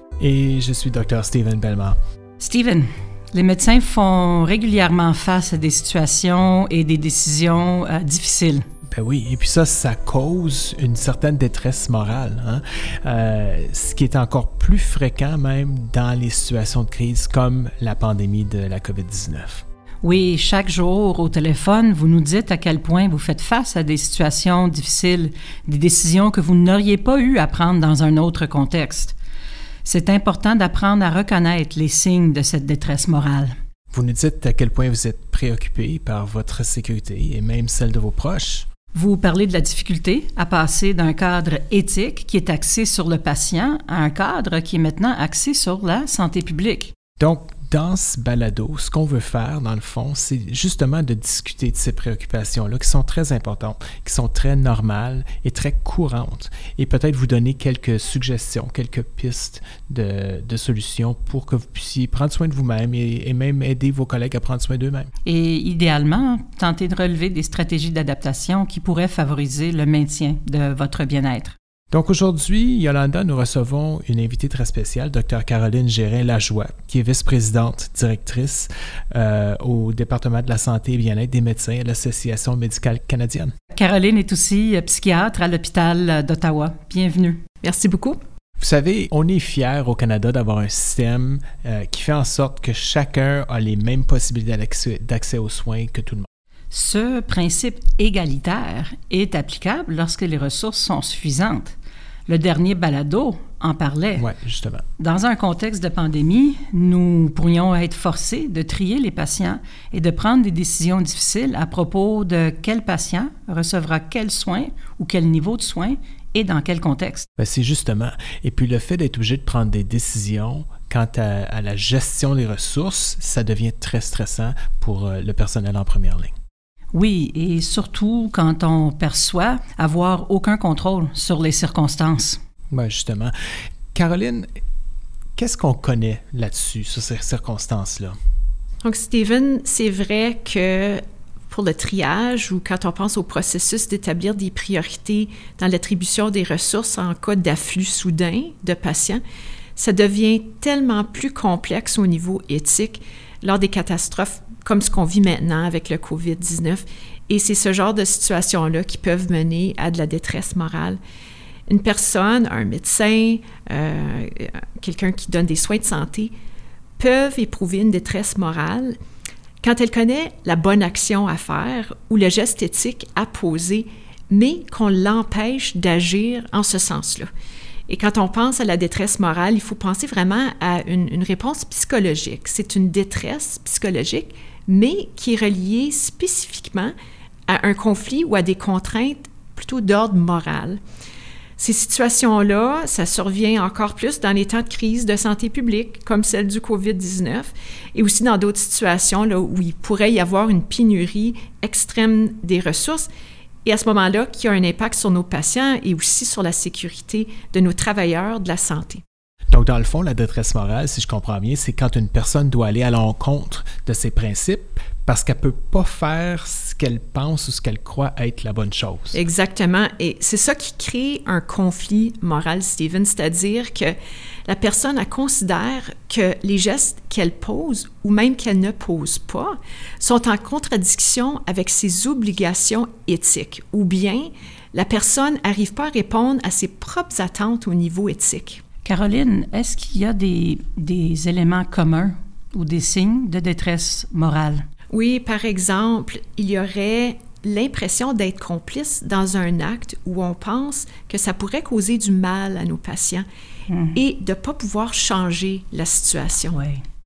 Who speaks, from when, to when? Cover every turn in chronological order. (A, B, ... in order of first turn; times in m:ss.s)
0:00.2-0:02.0 A
0:02.4-0:08.6 B
0:08.9-0:19.6 A
0:20.0-0:29.2 B
0:29.8-0:33.5 B
0:33.9-0:38.7 A
0:38.9-0:46.9 B
0:47.2-1:05.1 A
1:05.2-1:11.5 B
1:11.9-1:23.5 A
1:23.7-1:27.4 B
1:27.6-1:28.2 C
1:28.6-1:36.3 A
1:36.7-1:41.7 B
1:42.3-1:44.3 B
1:44.2-1:44.8 A
1:45.0-1:57.3 B
1:57.4-2:06.3 A
2:06.9-2:12.4 B
2:12.7-2:13.3 A
2:13.9-2:14.5 A
2:15.4-2:18.1 A
2:18.8-2:29.2 C
2:29.8-2:41.0 C
2:41.7-2:46.3 C
2:47.0-2:49.0 C
2:49.6-2:57.3 C
2:57.9-3:06.9 C
3:07.5-3:10.8 C
3:11.6-3:23.1 C
3:23.6-3:29.0 C
3:29.5-3:39.2 A
3:39.1-3:43.9 C
3:44.4-3:58.6 C
3:58.8-4:04.6 B
4:04.9-4:13.2 C
4:13.7-4:14.0 B
4:13.9-4:16.6 C
4:16.5-4:16.8 B